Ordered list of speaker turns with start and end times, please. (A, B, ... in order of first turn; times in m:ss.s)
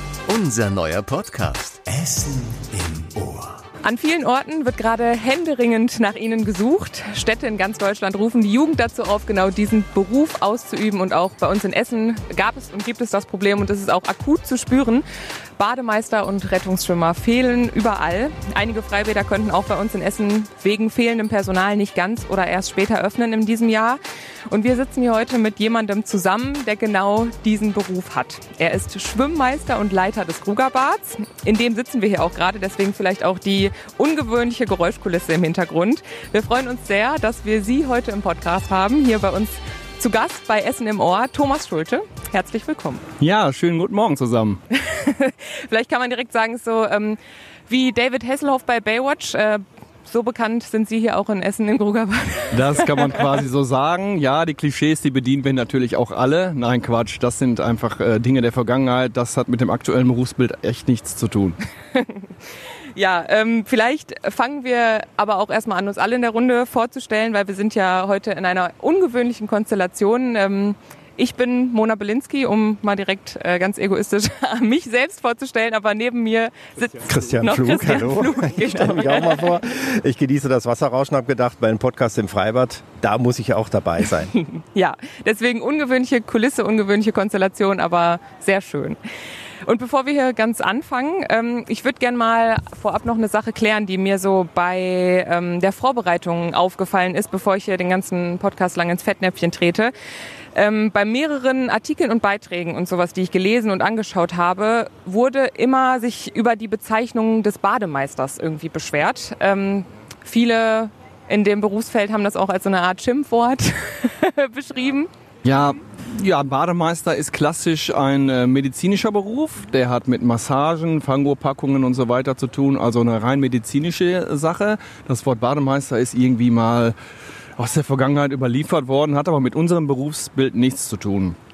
0:00.3-0:03.6 A
0:03.8-0:15.0 B
0:15.6-0:43.0 B
0:43.2-0:44.6 C
0:44.7-0:53.2 B
0:52.5-1:01.6 C
1:01.9-1:02.3 B
1:02.9-1:19.6 B
1:17.0-1:24.3 D
1:24.3-1:29.0 B
1:29.6-1:39.9 B
1:40.6-1:55.1 B
1:55.4-2:07.0 C
2:07.6-2:11.4 C